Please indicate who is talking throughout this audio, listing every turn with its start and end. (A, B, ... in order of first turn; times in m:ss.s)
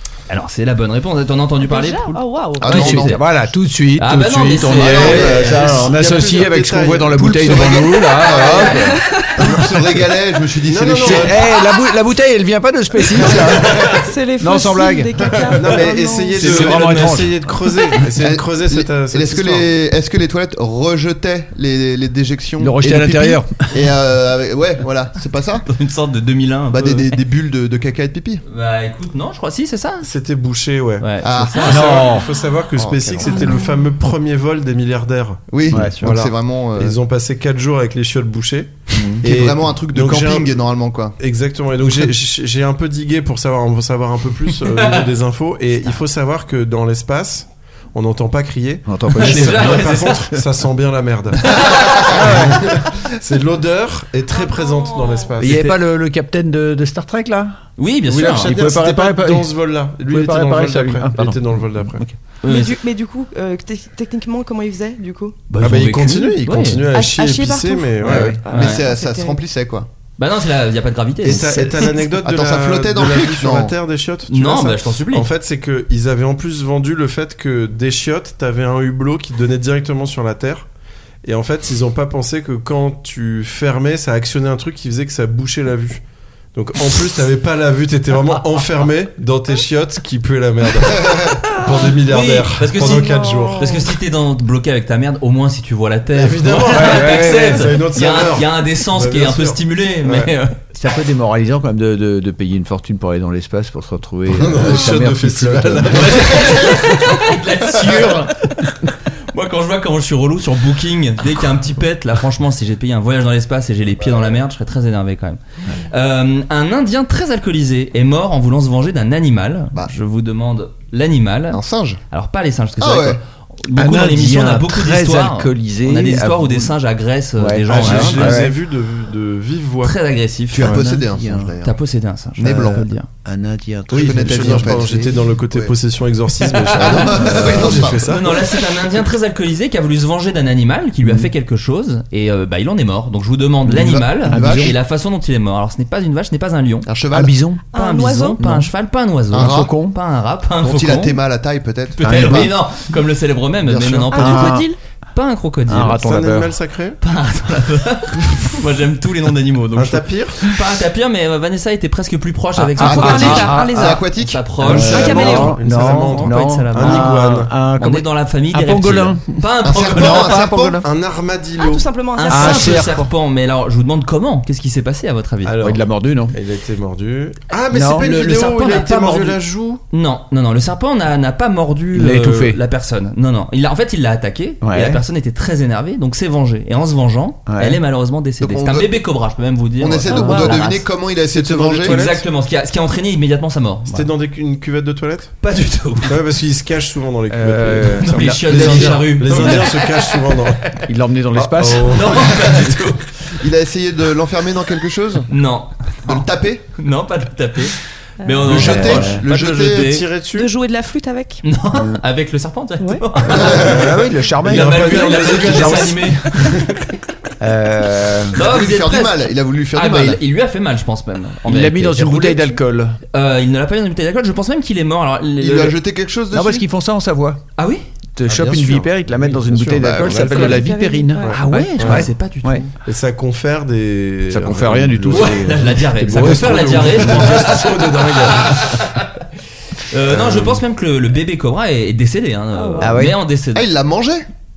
0:00.3-0:03.3 A
0:01.6-0:02.9 B
0:02.6-0:03.3 C
0:02.6-0:09.9 D
0:04.0-0:05.3 A
0:04.7-0:05.9 C
0:04.9-0:08.6 E
0:07.4-0:11.4 C
0:08.8-0:09.4 B
0:10.6-0:11.4 E
0:11.0-0:13.9 D
0:13.9-0:16.6 B
0:14.4-0:15.2 D
0:15.5-0:19.7 E
0:16.3-0:17.5 D
0:16.4-0:17.2 A
0:18.2-0:25.7 C
0:22.6-0:23.7 D
0:25.7-0:27.2 A
0:26.7-0:28.4 C
0:28.4-0:30.1 A
0:30.0-0:40.6 E
0:31.0-0:32.0 A
0:31.2-0:31.7 C
0:31.6-0:33.6 D
0:33.4-0:33.6 B
0:35.5-0:37.0 C
0:35.7-0:36.0 D
0:38.9-0:39.2 D
0:39.2-0:41.2 C
0:41.2-0:55.8 E
0:44.8-0:45.0 A
0:48.8-0:50.0 D
0:49.2-0:50.2 A
0:51.4-0:52.2 A
0:52.1-0:52.7 D
0:54.3-0:55.3 B
0:55.4-0:57.6 D
0:57.8-0:58.5 A
0:58.1-1:02.0 E
0:58.2-1:02.1 D
1:02.4-1:02.7 A
1:02.4-1:05.4 B
1:05.5-1:06.8 A
1:05.6-1:08.4 E
1:06.9-1:09.4 B
1:08.0-1:08.4 D
1:08.5-1:09.9 C
1:08.5-1:08.8 A
1:10.2-1:11.5 A
1:11.2-1:20.7 E
1:11.4-1:13.7 C
1:14.3-1:15.3 A
1:21.2-1:26.0 E
1:26.5-1:33.8 E
1:32.0-1:40.5 A
1:32.8-1:33.8 B
1:36.1-1:40.3 E
1:36.6-1:37.8 D
1:40.7-1:47.0 D
1:44.3-1:46.7 E
1:45.9-1:48.7 A
1:49.3-2:01.6 A
2:01.5-2:02.0 C
2:02.1-2:08.5 A
2:02.8-2:03.2 C
2:03.7-2:06.7 D
2:07.4-2:08.6 D
2:07.7-2:10.0 E
2:09.8-2:10.8 A
2:10.5-2:11.8 C
2:10.6-2:11.6 D
2:11.6-2:13.1 A
2:12.4-2:12.9 C
2:12.4-2:15.2 D
2:13.9-2:15.8 C
2:13.9-2:18.8 E
2:16.7-2:18.1 C
2:16.8-2:26.9 A
2:17.2-2:17.8 D
2:21.0-2:21.3 D
2:23.7-2:24.8 C
2:23.7-2:24.8 D
2:26.8-2:27.4 C
2:27.1-2:27.6 D
2:27.7-2:28.4 B
2:27.7-2:31.2 A
2:28.4-2:28.7 D
2:29.3-2:30.0 D
2:29.3-2:29.7 C
2:30.6-2:32.5 C
2:32.0-2:36.0 A
2:32.0-2:32.6 D
2:33.6-2:34.4 C
2:34.1-2:34.8 B
2:34.2-2:34.6 D
2:35.7-2:36.5 D
2:36.0-2:37.0 E
2:37.0-2:50.4 A
2:39.7-2:40.5 E
2:42.6-2:44.0 D
2:42.8-2:44.0 B
2:42.8-2:44.4 C
2:44.6-2:47.5 E
2:44.6-2:50.9 D
2:44.8-2:45.6 B
2:49.6-2:50.8 C
2:50.8-2:51.8 E
2:51.6-2:52.8 B
2:52.2-2:55.5 A
2:52.3-2:53.1 D
2:55.4-2:59.8 E
2:55.6-2:56.4 D
2:57.7-2:58.1 D
2:58.0-2:59.4 A
2:59.9-3:10.9 A
3:01.9-3:02.6 D
3:04.6-3:05.0 D
3:07.5-3:07.8 D
3:08.4-3:09.0 C
3:09.8-3:12.0 C
3:10.1-3:10.6 D
3:11.3-3:12.2 E
3:11.8-3:14.0 A
3:13.9-3:15.4 E
3:15.4-3:16.2 A
3:16.0-3:20.8 E
3:17.3-3:19.6 D
3:17.9-3:20.1 A
3:20.8-3:22.2 D
3:21.3-3:22.6 E
3:21.8-3:23.1 A
3:23.4-3:25.3 C
3:25.3-3:30.0 A
3:26.0-3:26.6 C
3:28.2-3:28.6 B
3:28.5-3:30.0 C
3:28.5-3:30.5 E
3:28.5-3:29.2 D
3:30.3-3:31.4 B
3:31.4-3:36.9 A
3:31.7-3:32.0 D
3:33.3-3:36.5 D
3:33.4-3:36.6 E
3:33.4-3:33.7 C
3:37.4-3:38.5 D
3:38.3-3:42.6 A
3:38.3-3:40.2 C
3:41.4-3:43.0 D
3:43.1-3:45.8 A
3:45.4-3:46.6 C
3:46.3-3:47.4 D
3:47.6-3:47.8 A
3:48.2-3:52.6 D
3:48.3-3:50.6 E
3:48.4-3:48.7 C
3:49.6-3:50.6 C
3:50.3-3:51.4 B
3:51.2-3:52.1 E
3:51.3-3:52.7 A
3:52.8-3:58.8 E
3:54.3-3:58.4 D
3:55.1-3:59.1 A
3:59.9-4:03.7 A
4:02.5-4:03.0 B
4:02.8-4:03.2 D
4:03.5-4:04.2 C